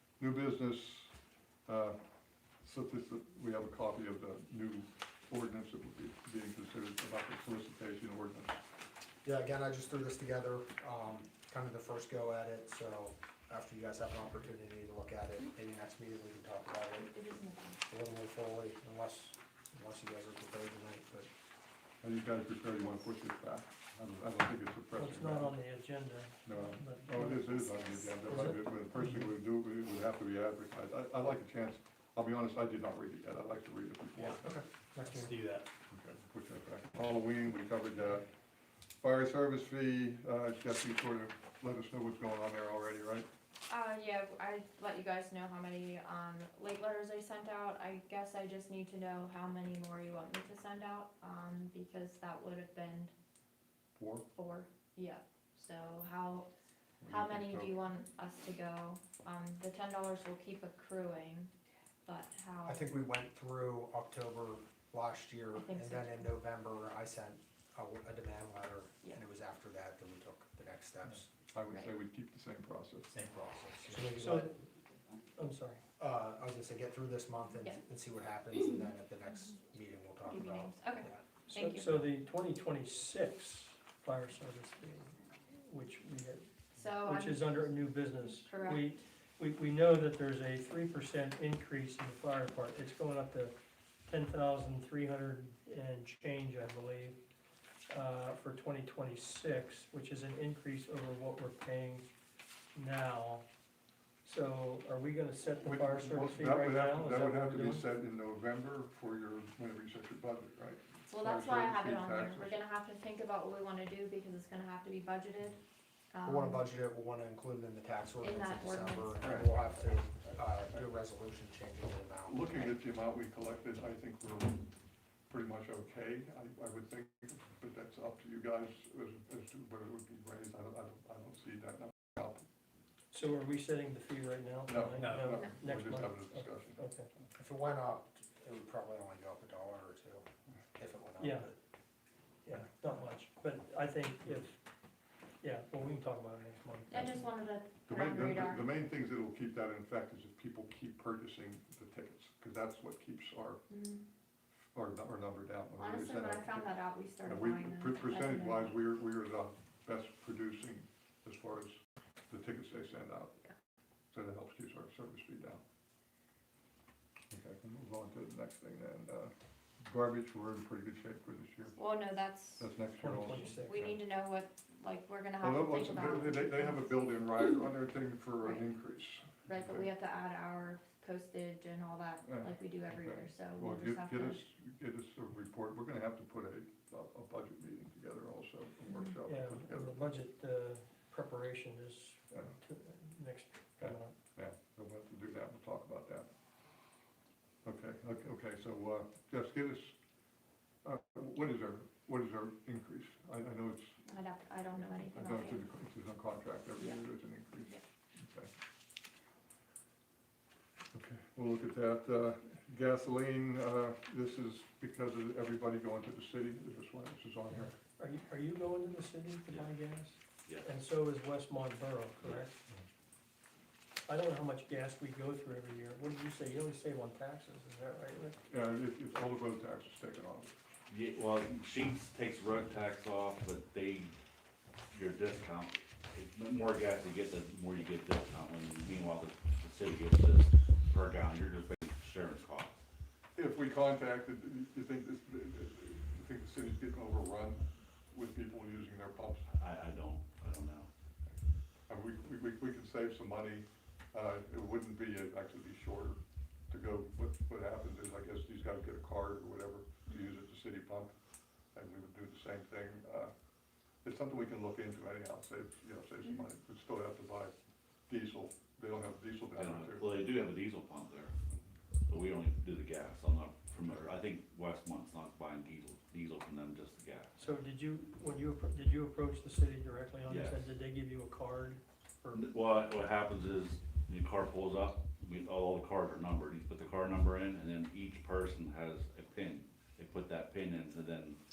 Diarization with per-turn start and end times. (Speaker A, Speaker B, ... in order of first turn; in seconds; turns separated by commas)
Speaker A: 0.2-1.1, Speaker A: 1.7-2.0, Speaker A: 2.6-8.6, Speaker B: 9.2-17.1, Speaker C: 17.0-17.8, Speaker B: 17.9-21.3, Speaker A: 22.0-25.5, Speaker D: 24.9-29.4, Speaker A: 26.4-34.4, Speaker B: 34.4-35.4, Speaker E: 35.0-35.7, Speaker A: 35.9-38.3, Speaker A: 39.0-43.3, Speaker C: 43.7-53.1, Speaker A: 54.0-54.3, Speaker C: 54.3-56.5, Speaker A: 57.0-57.8, Speaker C: 57.1-61.5, Speaker C: 62.1-62.8, Speaker B: 62.7-71.3, Speaker C: 65.5-66.3, Speaker A: 71.5-73.1, Speaker E: 73.1-74.1, Speaker B: 73.8-74.5, Speaker D: 74.1-74.5, Speaker D: 75.4-75.8, Speaker B: 76.0-81.4, Speaker C: 80.3-82.0, Speaker D: 81.5-93.5, Speaker C: 86.8-88.8, Speaker D: 94.1-97.2, Speaker D: 97.9-102.1, Speaker D: 102.8-103.5, Speaker D: 104.2-107.9, Speaker A: 105.6-112.6, Speaker C: 111.1-116.6, Speaker B: 116.2-122.8, Speaker C: 118.2-119.5, Speaker A: 119.2-119.7, Speaker A: 120.2-120.9, Speaker A: 122.3-124.7, Speaker A: 125.3-132.4, Speaker D: 133.1-137.1, Speaker A: 134.7-136.9, Speaker E: 135.0-135.4, Speaker B: 137.4-141.6, Speaker D: 141.2-141.5, Speaker D: 142.4-144.6, Speaker D: 145.4-147.3, Speaker C: 146.9-148.7, Speaker A: 147.9-153.7, Speaker C: 153.7-154.0, Speaker A: 154.7-156.7, Speaker C: 155.8-158.8, Speaker A: 157.2-163.4, Speaker A: 164.1-165.6, Speaker A: 167.3-171.8, Speaker C: 171.8-172.7, Speaker A: 172.6-174.0, Speaker D: 173.0-173.8, Speaker C: 173.7-177.0, Speaker A: 175.4-179.9, Speaker C: 179.5-184.5, Speaker A: 182.2-190.0, Speaker D: 189.2-194.2, Speaker A: 193.8-196.3, Speaker A: 197.7-200.0, Speaker A: 200.8-204.1, Speaker C: 204.1-205.6, Speaker A: 205.1-208.5, Speaker A: 210.9-217.8, Speaker D: 217.5-222.6, Speaker F: 220.4-220.7, Speaker D: 224.1-228.4, Speaker A: 228.5-230.6, Speaker F: 230.9-234.1, Speaker F: 234.9-242.8, Speaker A: 243.4-249.5, Speaker F: 249.5-250.9, Speaker A: 251.3-261.1, Speaker A: 261.7-263.3, Speaker A: 264.0-267.5, Speaker A: 268.1-270.1, Speaker F: 269.6-271.4, Speaker F: 272.1-277.5, Speaker D: 277.4-282.5, Speaker F: 280.3-280.7, Speaker F: 282.3-291.4